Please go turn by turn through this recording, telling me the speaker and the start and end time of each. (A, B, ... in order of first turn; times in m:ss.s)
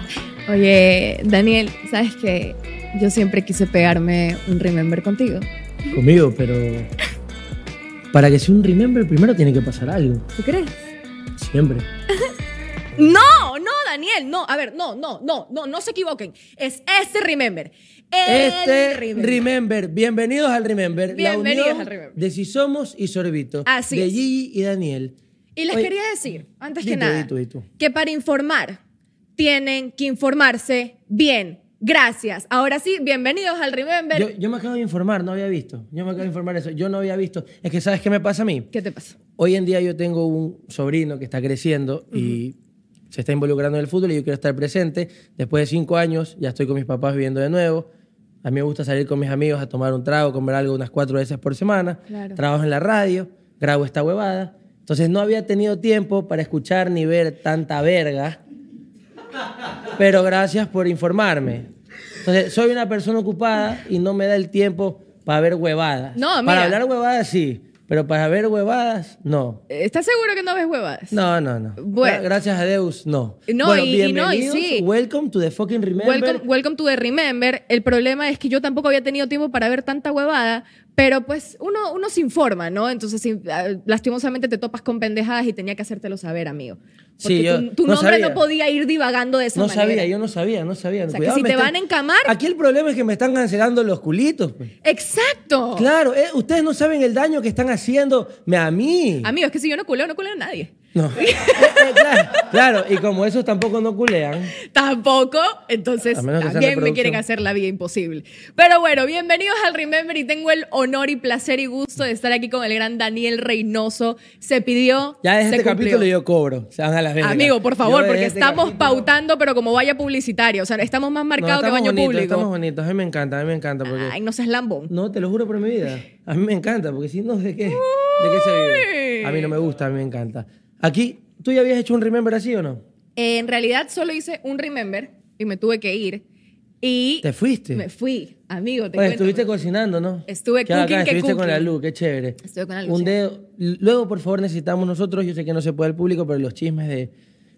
0:00.5-0:05.5 A
0:05.9-0:06.9 B
0:08.1-0:10.3 B
0:10.4-0:10.7 A
0:11.4-0:11.9 B
0:13.0-0:19.4 A
0:18.2-0:25.2 B
0:21.1-0:22.2 A
0:23.7-0:24.2 A
0:25.6-0:28.8 A
0:26.8-0:27.7 B
0:29.4-0:34.3 A
0:34.1-0:38.7 B
0:38.7-0:39.2 A
0:39.4-0:42.6 B
0:42.1-0:42.4 A
0:43.1-0:47.9 B
0:48.4-0:58.4 B
0:52.1-0:52.4 A
1:00.0-1:01.7 B
1:02.2-1:09.6 B
1:06.2-1:06.8 A
1:09.7-1:11.2 A
1:11.1-1:16.4 B
1:11.8-1:12.2 A
1:13.5-1:14.8 A
1:16.0-1:30.1 A
1:27.2-1:28.4 B
1:29.5-1:34.7 B
1:31.1-1:32.3 A
1:34.8-1:35.9 A
1:35.8-1:39.3 B
1:39.2-1:42.5 A
1:40.9-1:44.5 B
1:44.6-1:56.1 A
1:46.1-1:47.2 B
1:55.2-1:59.1 B
1:57.2-2:02.5 A
2:01.4-2:04.1 B
2:03.8-2:04.9 A
2:04.9-2:12.8 B
2:07.6-2:09.6 A
2:13.2-2:16.2 A
2:16.8-2:19.4 A
2:17.2-2:17.9 B
2:19.0-2:27.1 B
2:20.3-2:21.7 A
2:22.4-2:23.2 A